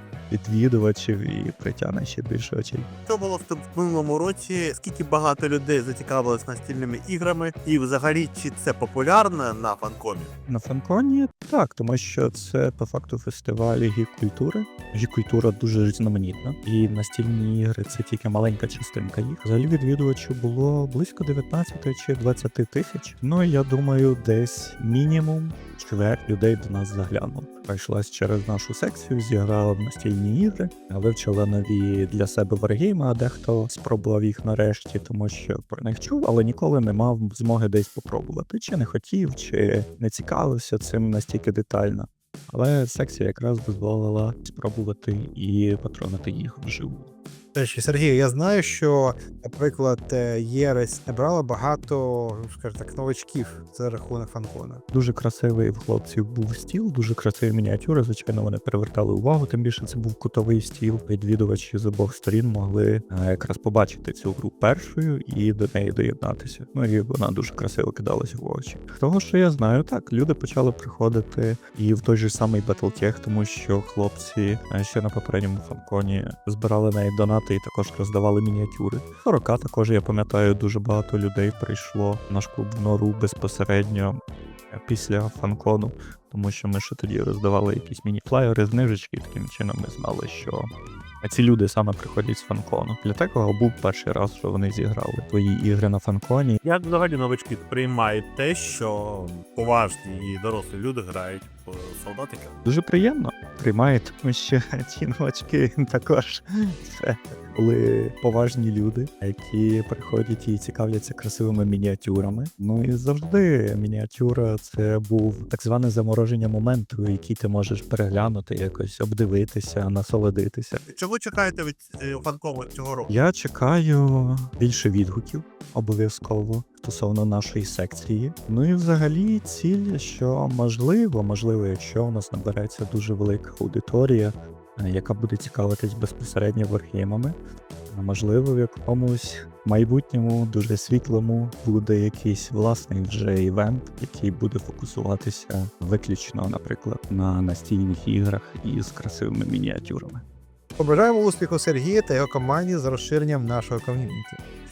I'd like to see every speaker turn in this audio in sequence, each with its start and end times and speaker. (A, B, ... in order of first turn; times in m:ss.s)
0:00.3-0:02.9 A
0:03.1-0:10.3 B
0:10.5-0:47.1 A
0:47.6-0:54.8 C
0:54.9-1:24.2 A
1:24.7-1:30.7 A
1:31.2-1:36.6 A
1:36.6-1:42.6 B
1:42.7-2:00.8 A
2:00.9-2:03.1 B
2:03.1-2:17.4 A
2:17.9-2:30.2 A
2:30.8-2:34.4 C